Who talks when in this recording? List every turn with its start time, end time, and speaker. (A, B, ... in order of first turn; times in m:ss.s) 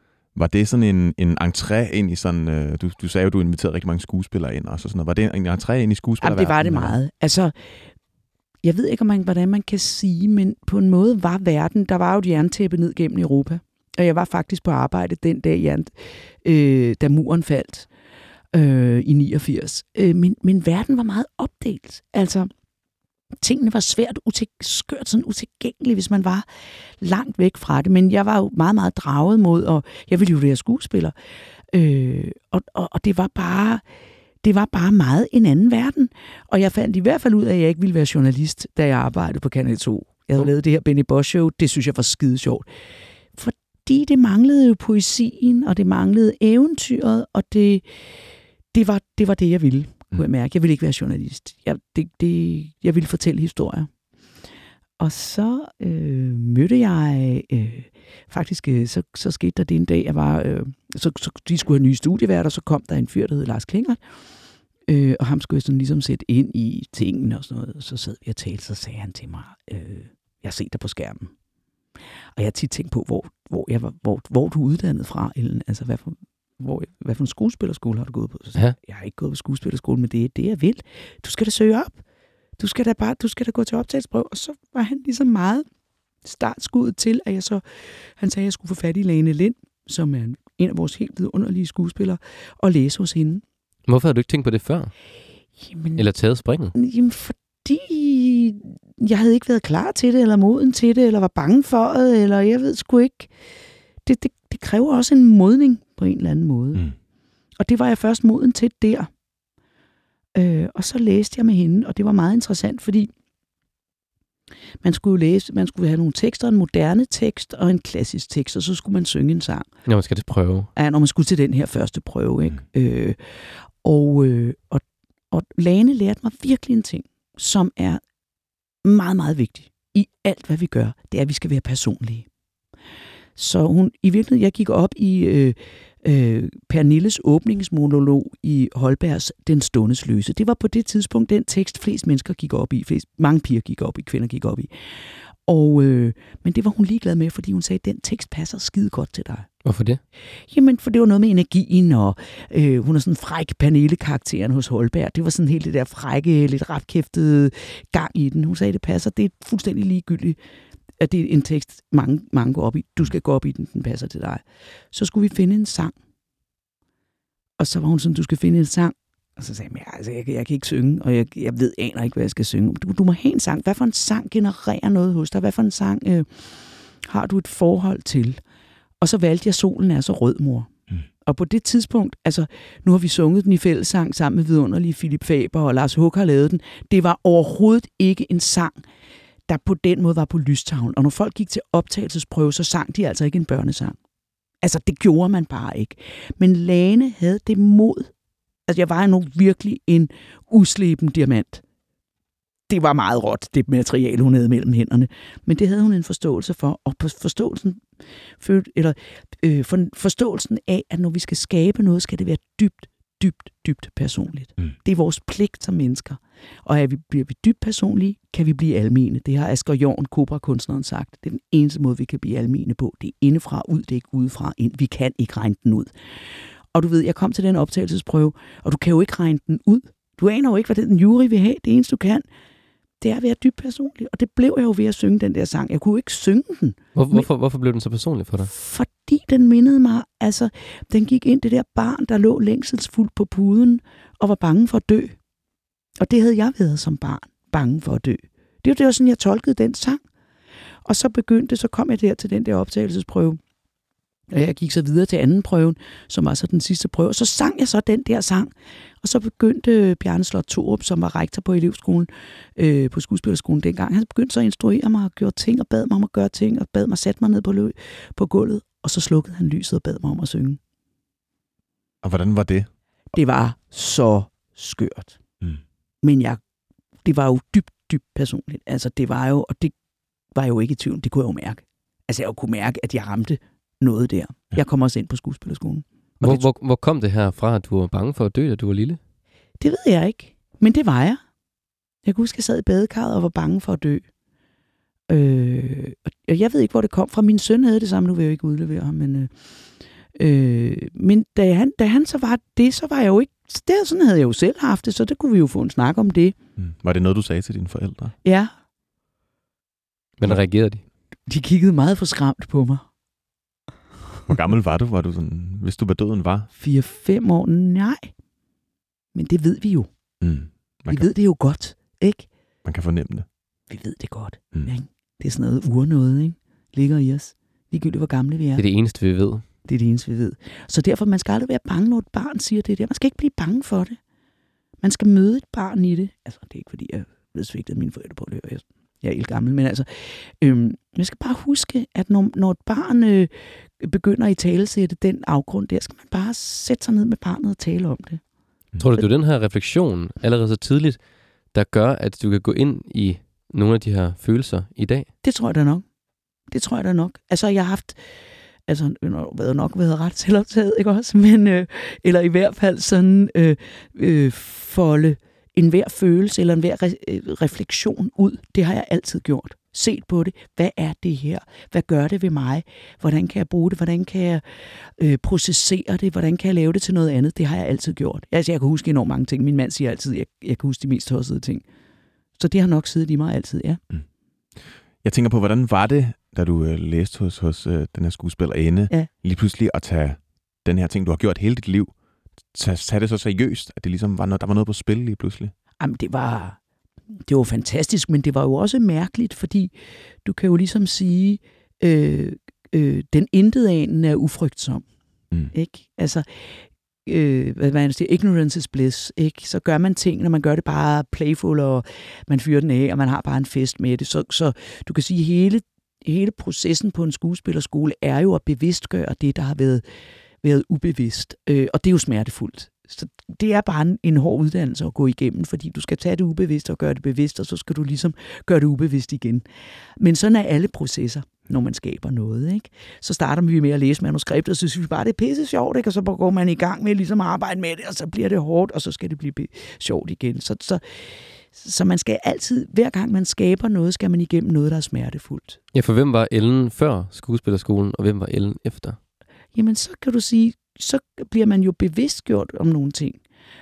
0:00.3-0:07.0 A
0:06.2-0:07.5 B
0:08.6-0:17.9 B
0:18.5-0:22.5 B
0:23.4-0:26.4 B
0:27.0-0:31.1 B
0:31.7-0:33.8 B
0:34.4-0:42.7 B
0:43.4-0:48.0 B
0:48.7-0:53.9 B
0:55.0-1:04.0 B
1:04.9-1:11.3 B
1:12.4-1:22.0 B
1:22.6-1:25.6 B
1:26.2-1:33.4 B
1:33.9-1:34.9 C
1:35.6-1:36.0 B
1:36.0-1:36.7 C
1:36.7-1:43.3 B
1:44.0-1:46.8 B
1:47.6-1:49.1 B
1:50.3-1:53.1 B
1:54.8-1:59.7 B
1:59.8-2:00.7 C
2:00.8-2:08.0 B
2:08.8-2:12.3 B
2:13.4-2:29.5 B
2:29.6-2:30.0 C
2:30.5-2:40.4 B
2:41.0-2:45.9 B
2:47.6-2:58.4 B
2:59.0-3:00.7 B
3:01.2-3:08.8 B
3:09.5-3:14.0 B
3:14.6-3:18.1 B
3:18.7-3:21.6 B
3:22.7-3:27.8 B
3:28.4-3:45.9 B
3:46.7-3:52.2 B
3:53.0-3:57.3 B
3:56.9-3:58.5 C
3:58.4-4:05.2 B
4:06.0-4:10.0 B
4:10.8-4:13.4 B
4:14.3-4:30.6 B
4:32.0-4:32.7 A
4:33.1-4:35.2 B
4:36.0-4:36.4 B
4:37.0-4:39.7 B
4:40.3-4:46.5 B
4:46.2-4:49.0 C
4:49.6-4:51.2 B
4:52.0-4:54.0 B
4:55.1-4:59.3 B
5:00.2-5:06.4 B
5:06.6-5:08.1 A
5:08.2-5:08.5 B
5:10.2-5:10.8 C
5:11.3-5:12.8 B
5:14.3-5:16.5 A
5:16.6-5:18.1 B
5:19.1-5:19.9 B
5:20.2-5:21.1 A
5:20.9-5:22.3 B
5:22.6-5:23.2 A
5:23.7-5:28.6 B
5:28.6-5:29.4 C
5:29.6-5:34.0 B
5:34.8-5:48.2 B
5:48.8-5:55.1 C
5:55.2-5:55.8 B
5:56.5-5:58.0 B
5:58.7-6:21.6 B
6:22.4-6:23.8 B
6:24.6-6:31.9 A
6:32.5-6:35.5 A
6:35.8-6:36.6 B
6:37.3-6:39.7 B
6:40.2-6:44.8 B
6:45.5-6:59.8 B
7:00.4-7:09.4 B
7:10.0-7:25.6 B
7:25.7-7:29.0 C
7:29.5-7:33.2 B